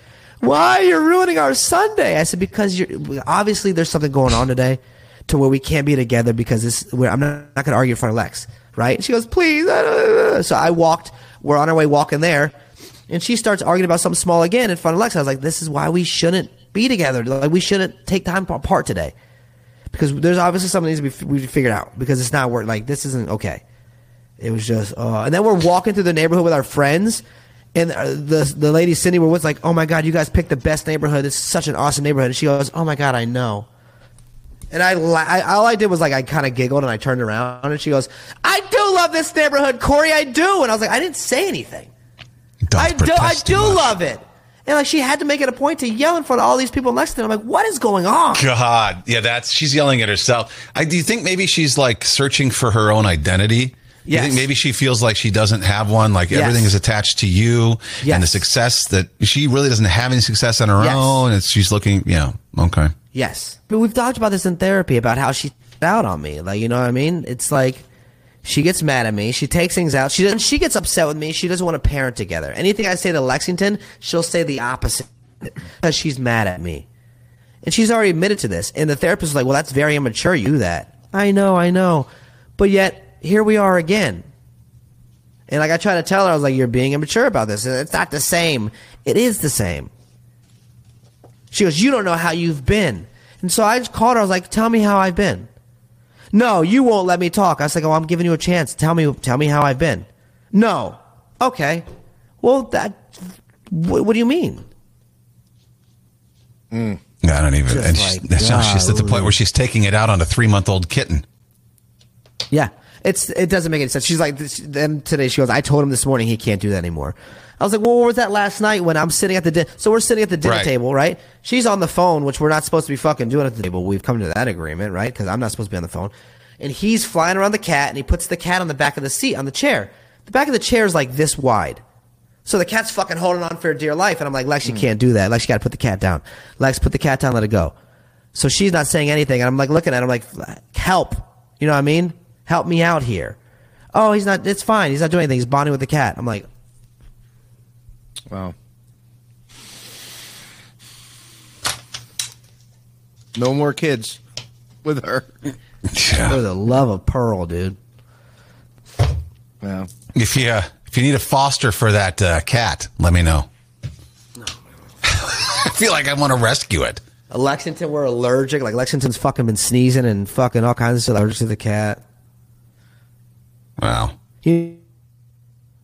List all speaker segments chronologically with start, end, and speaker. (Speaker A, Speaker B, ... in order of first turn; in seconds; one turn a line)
Speaker A: 0.4-12.6
Speaker A: 13.1-19.1
Speaker A: 19.9-23.6
Speaker A: 24.4-27.2
Speaker A: 27.8-33.7
Speaker A: 34.7-41.9
Speaker B: 42.7-44.0
Speaker A: 42.8-48.5
Speaker B: 48.3-62.9
Speaker A: 54.1-54.5
Speaker A: 56.3-56.8
Speaker A: 58.0-58.4
Speaker A: 60.8-61.2
Speaker A: 63.1-67.8
Speaker A: 68.4-76.9
Speaker A: 77.6-84.2
Speaker A: 85.5-89.9
Speaker A: 91.5-95.5
Speaker A: 96.3-101.8
Speaker A: 102.4-104.7
Speaker C: 106.7-107.0
Speaker B: 107.2-111.2
Speaker A: 107.7-109.4
Speaker A: 112.5-131.8
Speaker B: 120.4-120.7
Speaker A: 132.5-137.7
Speaker A: 138.3-143.4
Speaker A: 143.9-146.5
Speaker C: 153.3-154.2
Speaker C: 154.8-155.3
Speaker B: 155.9-156.4
Speaker A: 156.2-157.8
Speaker C: 159.6-159.9
Speaker B: 160.2-163.5
Speaker B: 165.0-167.0
Speaker A: 167.3-172.0
Speaker B: 173.8-174.2
Speaker A: 174.4-174.8